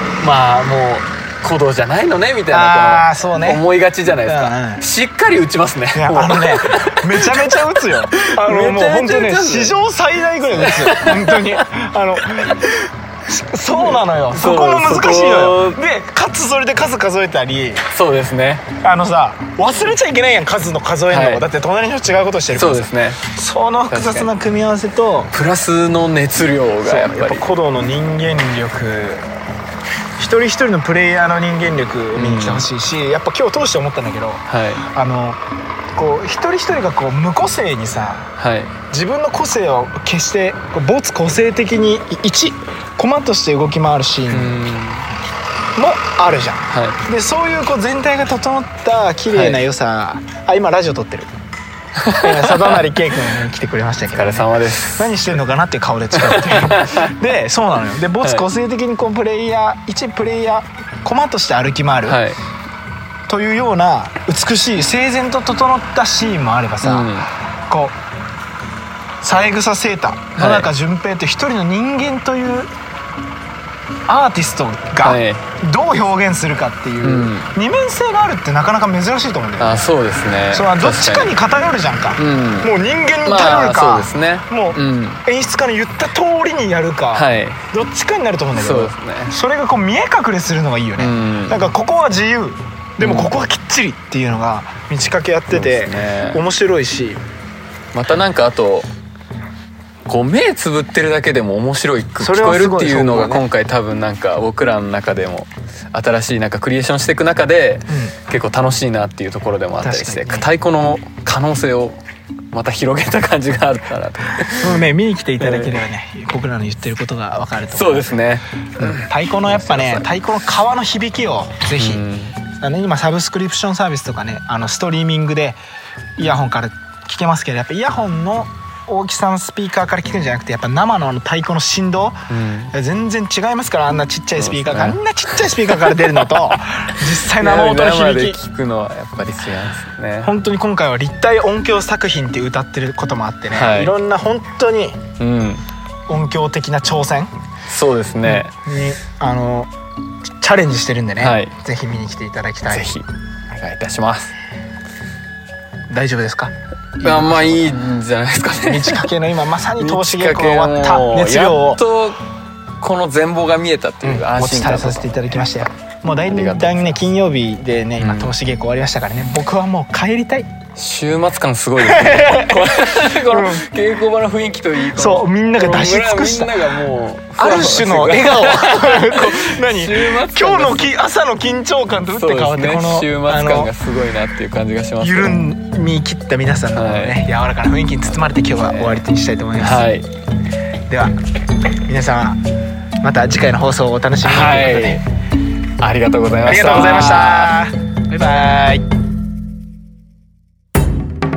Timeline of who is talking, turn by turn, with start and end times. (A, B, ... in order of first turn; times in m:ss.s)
0:00.2-0:09.8 A
0:02.5-0:03.6 B
0:04.2-0:04.8 B
0:05.9-0:17.8 B
0:10.6-0:11.6 A
0:14.3-0:15.8 A
0:17.9-0:18.7 A
0:18.8-0:25.3 B
0:21.1-0:21.4 A
0:22.5-0:23.3 A
0:23.9-0:24.3 A
0:25.3-0:27.4 A
0:26.8-0:29.2 B
0:30.2-0:35.4 B
0:32.1-0:32.7 A
0:34.5-0:34.9 A
0:36.0-0:38.3 B
0:38.4-0:38.7 A
0:38.9-0:44.6 B
0:44.3-0:45.1 A
0:45.8-0:51.3 B
0:46.7-0:47.0 A
0:49.3-0:49.6 A
0:52.0-0:52.8 A
0:52.1-1:02.2 B
0:54.1-0:55.1 A
0:56.2-0:57.1 A
1:02.1-1:02.4 A
1:03.3-1:08.0 B
1:06.8-1:07.3 A
1:09.2-1:12.7 B
1:10.4-1:10.7 A
1:14.1-1:19.9 B
1:15.0-1:15.4 A
1:17.0-1:17.5 A
1:19.6-1:21.4 A
1:20.5-1:37.2 B
1:22.2-1:22.7 A
1:23.2-1:25.2 A
1:27.1-1:27.6 A
1:28.5-1:29.4 A
1:31.0-1:31.6 A
1:33.0-1:33.5 A
1:35.5-1:36.4 A
1:37.9-1:38.9 A
1:40.1-1:52.0 A
1:42.2-1:43.4 B
1:47.9-1:48.2 B
1:49.8-1:50.5 B
1:52.5-1:54.8 A
1:54.6-1:58.2 B
1:55.4-1:55.8 A
1:57.7-2:00.1 A
1:58.8-2:02.0 B
2:01.8-2:02.4 A
2:02.6-2:05.6 B
2:06.2-2:12.2 B
2:12.3-2:12.7 A
2:12.7-2:18.4 B
2:14.4-2:15.0 A
2:17.4-2:20.3 A
2:20.2-2:25.0 B
2:23.5-2:23.9 A
2:25.2-2:25.6 A
2:26.1-2:27.3 B
2:27.7-2:28.5 A
2:28.2-2:29.7 B
2:30.4-2:32.9 B
2:31.2-2:31.5 A
2:32.7-2:34.3 A
2:35.9-2:37.8 B
2:37.0-2:39.1 A
2:38.6-2:41.8 B
2:39.8-2:42.2 A
2:42.8-2:45.0 A
2:44.0-2:50.5 B
2:46.3-2:47.0 A
2:48.0-2:48.3 A
2:50.8-3:01.0 A
2:51.8-2:53.7 B
2:54.9-2:56.8 B
2:57.4-3:03.7 B
3:02.1-3:05.4 A
3:05.0-3:09.8 B
3:06.7-3:07.2 A
3:08.2-3:09.0 A
3:09.6-3:10.1 A
3:10.9-3:11.1 B
3:11.9-3:12.4 B
3:13.0-3:15.0 B
3:14.2-3:15.0 A
3:15.8-3:17.6 A
3:16.4-3:18.8 B